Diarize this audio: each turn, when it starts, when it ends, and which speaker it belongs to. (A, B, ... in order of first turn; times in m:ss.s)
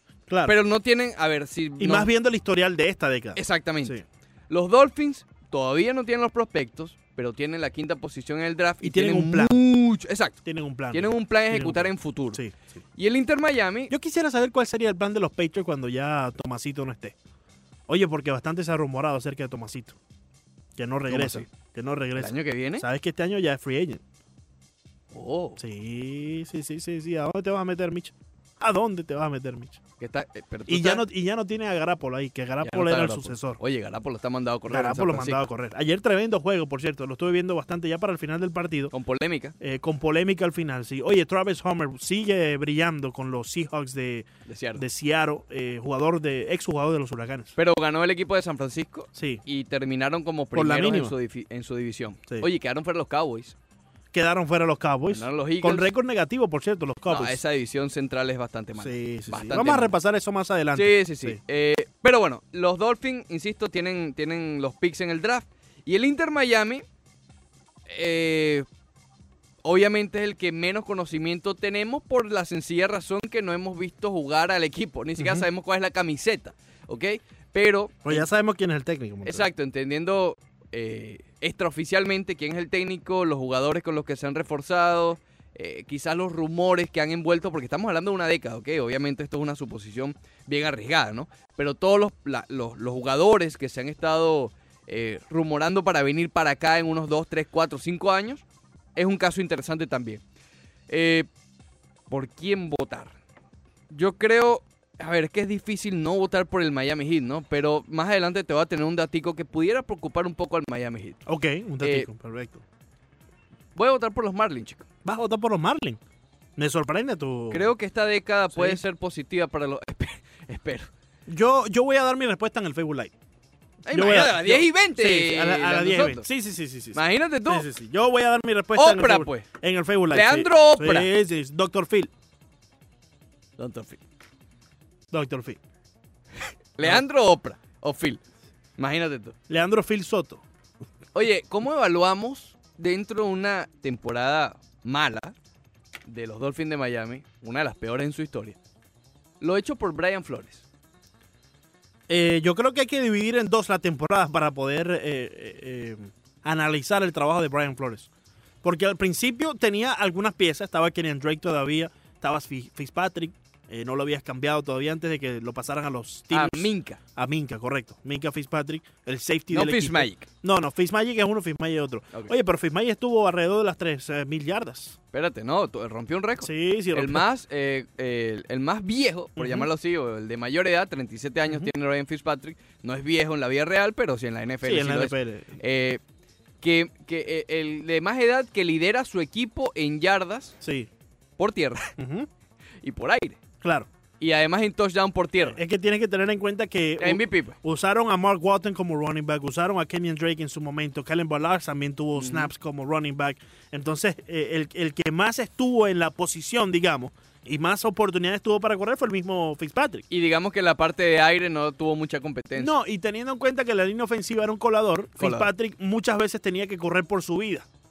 0:00.3-0:00.6 A
0:00.4-0:02.1 B
0:01.8-0:04.0 A
0:03.4-0:10.4 B
0:08.8-0:09.6 A
0:10.4-0:12.6 A
0:10.9-0:12.4 B
0:13.0-0:13.9 B
0:13.9-0:17.2 A
0:17.9-0:20.0 A
0:20.8-0:24.0 A
0:21.1-0:21.5 B
0:22.2-0:22.8 B
0:25.1-0:25.6 B
0:25.6-0:29.8 A
0:30.0-0:31.0 B
0:30.7-0:33.6 A
0:32.6-0:35.4 B
0:34.7-0:38.9 A
0:38.9-0:39.5 B
0:39.6-0:47.5 A
0:44.4-0:44.8 B
0:47.6-0:53.5 B
0:49.1-0:49.4 A
0:50.5-0:51.1 A
0:54.1-0:57.4 A
0:55.1-0:55.9 B
0:57.1-0:59.9 B
0:58.8-1:01.4 A
1:00.7-1:06.8 B
1:07.9-1:08.6 B
1:09.6-1:18.3 B
1:15.2-1:15.4 A
1:18.0-1:19.5 A
1:19.2-1:38.4 B
1:39.0-1:40.2 B
1:40.9-1:41.3 B
1:42.1-1:43.1 B
1:43.9-1:51.2 B
1:51.2-1:52.6 A
1:51.8-1:52.1 B
1:53.7-1:54.9 B
1:55.0-1:56.0 A
1:56.6-1:57.7 A
1:57.5-2:00.9 B
1:58.5-1:58.8 A
2:01.3-2:03.1 A
2:03.8-2:06.2 B
2:03.9-2:12.1 A
2:06.9-2:07.7 B
2:08.7-2:09.4 B
2:10.1-2:11.1 B
2:13.6-2:14.0 B
2:15.1-2:15.6 A
2:16.8-2:18.2 B
2:18.8-2:19.4 B
2:19.5-2:20.4 A
2:21.1-2:25.3 B
2:26.0-2:28.6 B
2:29.4-2:30.6 B
2:32.1-2:38.1 A
2:38.6-2:55.0 A
2:46.3-2:47.0 B
2:49.5-2:50.3 B
2:55.1-3:06.0 B
2:56.4-2:57.2 A
2:59.4-2:59.7 A
3:04.6-3:05.6 A
3:06.6-3:10.5 B
3:10.6-3:10.9 A
3:11.4-3:11.9 B
3:12.0-3:12.3 A
3:12.8-3:13.4 B
3:13.6-3:13.9 A
3:14.2-3:15.6 B
3:15.4-3:30.0 A
3:17.0-3:17.6 B
3:22.2-3:22.5 B
3:30.1-3:32.7 B
3:32.6-3:37.7 A
3:35.2-3:35.5 B